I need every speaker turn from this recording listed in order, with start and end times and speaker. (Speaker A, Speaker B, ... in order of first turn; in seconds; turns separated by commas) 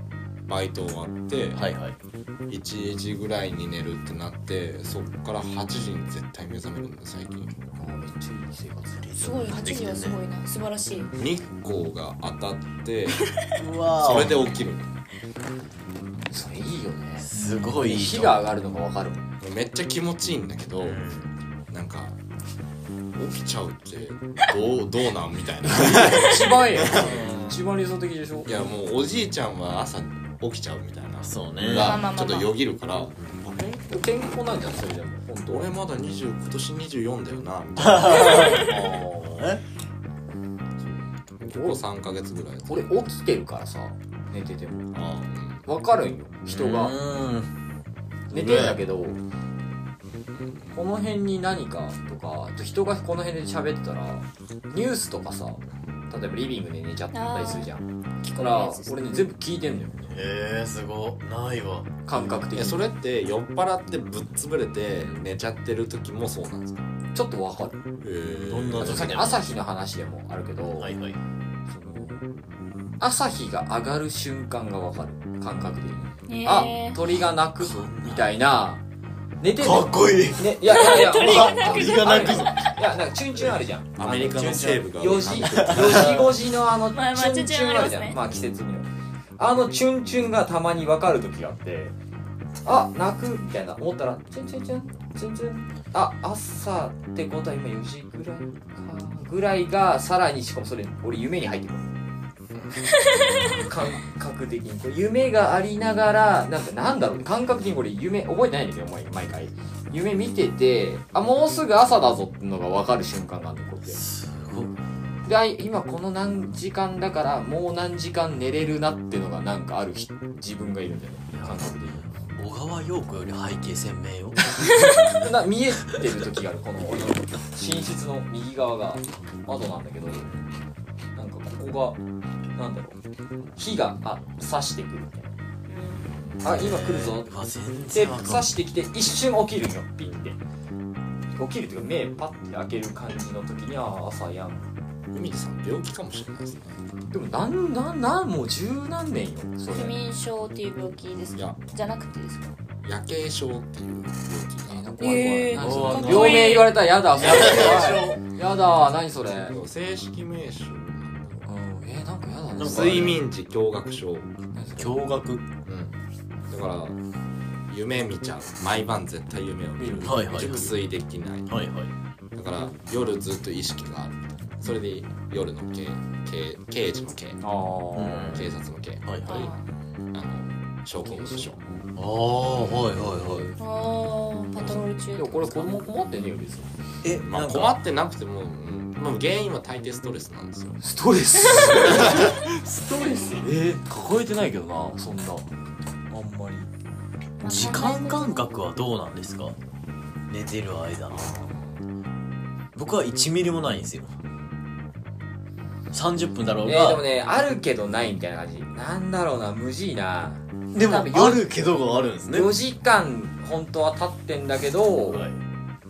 Speaker A: 0.5-1.7, Speaker B: 1.6-1.9, Speaker A: 2.5-7.5, Speaker C: 7.8-9.1, Speaker B: 9.0-10.2, Speaker D: 9.2-11.1, Speaker C: 10.9-11.2, Speaker A: 11.1-13.3, Speaker B: 13.5-14.5, Speaker A: 14.0-14.9, Speaker C: 16.3-19.3, Speaker B: 17.2-18.4, Speaker A: 19.4-21.0, Speaker B: 20.8-21.3, Speaker A: 21.7-22.2, Speaker A: 23.1-27.6, Speaker C: 25.7-28.6, Speaker B: 26.9-27.4, Speaker A: 28.4-33.8, Speaker B: 31.2-32.0, Speaker D: 31.7-32.5, Speaker C: 33.6-35.7, Speaker A: 35.5-38.7, Speaker B: 37.8-39.6, Speaker C: 38.3-39.5, Speaker A: 40.8-42.9, Speaker C: 42.7-44.9, Speaker A: 44.9-45.6, Speaker C: 45.6-47.0, Speaker B: 46.5-47.5, Speaker C: 48.3-49.2, Speaker B: 48.3-48.8, Speaker A: 50.4-50.6, Speaker C: 50.7-57.8, Speaker D: 57.1-57.7, Speaker D: 58.2-59.0, Speaker C: 58.4-60.1, Speaker B: 60.1-62.0, Speaker C: 62.0-62.9, Speaker A: 62.5-66.9, Speaker C: 67.1-67.8, Speaker A: 68.0-69.3, Speaker B: 68.5-69.5, Speaker C: 68.8-70.9, Speaker B: 70.8-71.2, Speaker C: 71.7-72.2, Speaker C: 73.0-78.8, Speaker D: 76.3-77.0, Speaker B: 77.6-78.4, Speaker C: 79.4-91.9, Speaker B: 79.6-82.8, Speaker D: 80.6-82.6, Speaker A: 84.0-86.3, Speaker B: 84.0-86.3, Speaker D: 86.9-88.2, Speaker C: 92.6-101.9, Speaker A: 102.5-103.7, Speaker D: 102.9-103.5, Speaker C: 103.3-114.0, Speaker B: 113.9-114.8, Speaker C: 115.2-122.2, Speaker B: 121.3-125.3, Speaker C: 124.6-130.3, Speaker B: 130.2-130.6, Speaker C: 131.2-132.0, Speaker C: 132.6-133.0, Speaker C: 133.6-135.3, Speaker D: 135.7-136.1, Speaker B: 136.1-138.5, Speaker C: 136.4-137.3, Speaker C: 137.9-140.4, Speaker B: 140.0-140.3, Speaker C: 141.3-144.7, Speaker A: 145.1-147.0, Speaker C: 147.1-150.0, Speaker D: 149.7-152.5, Speaker A: 152.8-155.6, Speaker C: 154.7-159.6, Speaker D: 155.0-156.8, Speaker B: 155.6-158.2, Speaker A: 159.4-161.5, Speaker C: 161.4-163.2, Speaker B: 162.6-163.2, Speaker A: 162.6-164.3, Speaker C: 164.5-165.1, Speaker B: 164.8-165.4, Speaker A: 165.6-167.0, Speaker A: 167.7-171.5, Speaker C: 169.8-170.4, Speaker B: 170.0-170.8, Speaker B: 171.5-171.9, Speaker A: 172.3-177.4, Speaker C: 177.4-178.4, Speaker B: 177.9-178.5, Speaker A: 178.2-179.5, Speaker B: 179.0-179.5, Speaker D: 179.2-179.6, Speaker A: 180.1-181.6, Speaker C: 181.0-181.9, Speaker B: 181.9-183.5, Speaker C: 182.5-183.6, Speaker D: 183.6-185.8, Speaker C: 184.6-186.7, Speaker B: 187.0-187.8, Speaker A: 187.2-190.8, Speaker C: 190.8-195.5, Speaker D: 191.4-192.1, Speaker A: 191.8-192.3, Speaker D: 192.9-193.4, Speaker C: 196.1-196.7, Speaker D: 197.4-198.6, Speaker B: 197.4-199.6, Speaker B: 200.3-201.3, Speaker A: 201.1-201.7, Speaker B: 202.7-204.1, Speaker B: 205.9-207.0, Speaker C: 206.6-211.6, Speaker B: 210.7-212.5, Speaker C: 212.3-215.2, Speaker B: 215.0-215.4